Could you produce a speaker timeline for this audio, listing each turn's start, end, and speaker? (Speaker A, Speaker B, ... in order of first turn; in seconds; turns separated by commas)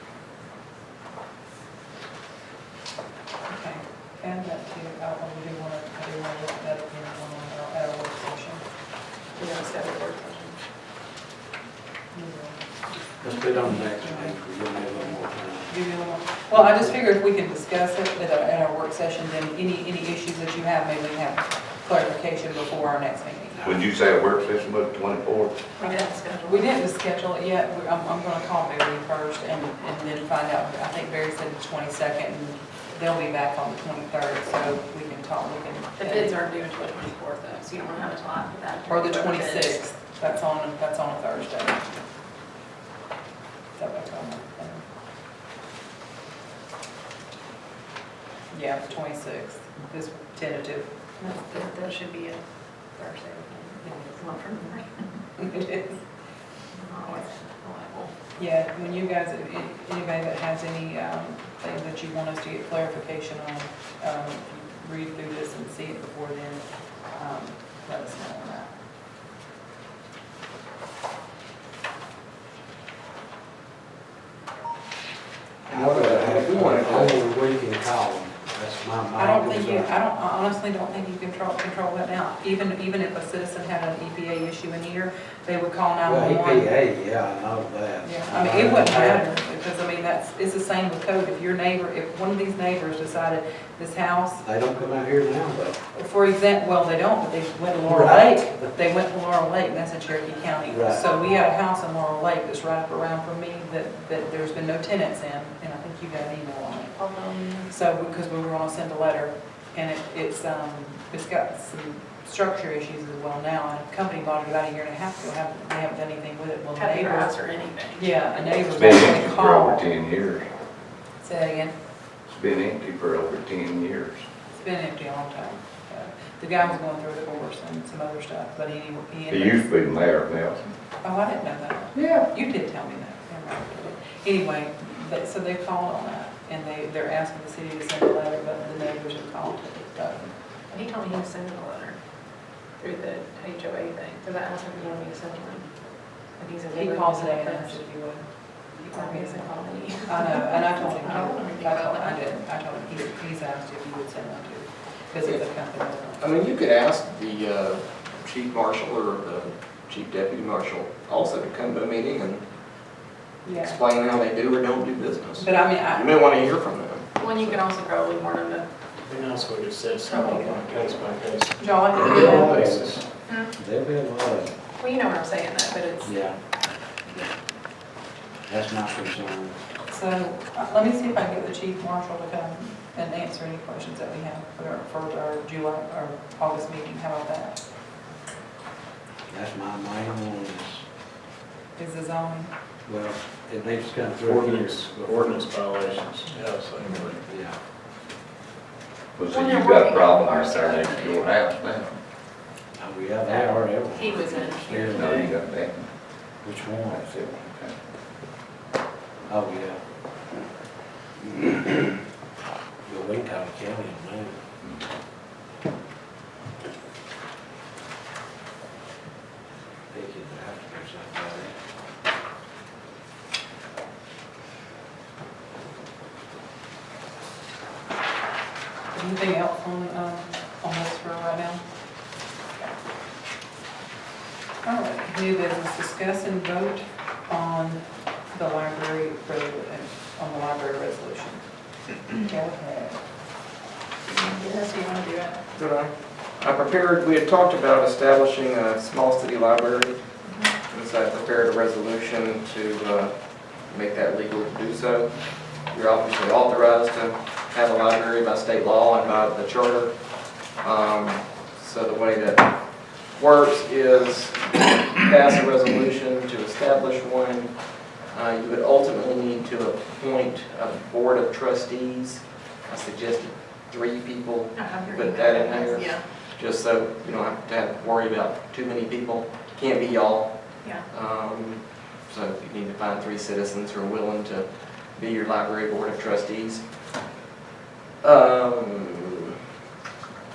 Speaker A: 3.5-8.6, Speaker B: 9.4-10.6, Speaker A: 12.1-14.4, Speaker C: 13.2-15.8, Speaker A: 15.7-23.7, Speaker D: 23.6-25.6, Speaker B: 25.8-26.7, Speaker A: 25.8-36.4, Speaker B: 36.0-39.9, Speaker A: 38.9-41.9, Speaker A: 43.8-44.8, Speaker A: 48.5-51.0, Speaker B: 51.2-52.4, Speaker B: 53.0-55.0, Speaker A: 53.8-54.5, Speaker A: 55.4-56.0, Speaker B: 56.7-58.1, Speaker A: 58.4-66.6, Speaker A: 67.1-68.7, Speaker E: 75.7-77.2, Speaker C: 75.7-79.9, Speaker A: 79.2-86.7, Speaker C: 86.0-89.3, Speaker A: 88.0-94.5, Speaker C: 94.5-95.8, Speaker A: 95.9-106.9, Speaker C: 97.8-98.6, Speaker C: 100.7-101.2, Speaker B: 106.9-107.7, Speaker A: 107.7-117.3, Speaker B: 116.8-118.6, Speaker A: 118.0-119.9, Speaker D: 118.7-120.5, Speaker A: 121.2-121.7, Speaker D: 122.3-124.2, Speaker A: 124.5-129.7, Speaker D: 129.3-130.6, Speaker A: 131.0-140.3, Speaker D: 131.9-132.3, Speaker B: 140.7-142.0, Speaker B: 142.8-145.7, Speaker B: 146.4-147.8, Speaker A: 146.7-148.3, Speaker A: 148.8-149.5, Speaker B: 148.9-152.2, Speaker A: 150.1-156.3, Speaker E: 156.2-162.4, Speaker A: 163.4-163.8, Speaker E: 163.5-167.6, Speaker A: 165.4-166.2, Speaker B: 167.2-168.7, Speaker F: 169.1-173.0, Speaker B: 170.1-170.6, Speaker A: 171.6-172.7, Speaker C: 171.9-173.0, Speaker C: 173.5-174.5, Speaker B: 174.8-176.2, Speaker C: 176.0-176.4, Speaker C: 178.5-179.6, Speaker A: 179.9-187.6, Speaker C: 189.3-190.8, Speaker A: 191.8-192.5, Speaker C: 192.9-195.6, Speaker F: 194.2-197.2, Speaker C: 197.2-197.6, Speaker D: 199.2-202.0, Speaker B: 199.3-201.3, Speaker C: 202.7-205.3, Speaker B: 203.3-205.4, Speaker D: 204.9-205.8, Speaker C: 206.4-207.0, Speaker D: 206.9-207.7, Speaker C: 209.3-209.8, Speaker C: 212.8-214.4, Speaker C: 219.9-221.5, Speaker A: 228.9-231.6, Speaker A: 234.6-241.4, Speaker A: 242.1-243.0, Speaker B: 244.2-245.4, Speaker E: 245.5-250.0, Speaker E: 250.7-260.0, Speaker E: 260.6-286.7, Speaker B: 274.5-276.1, Speaker E: 288.0-289.3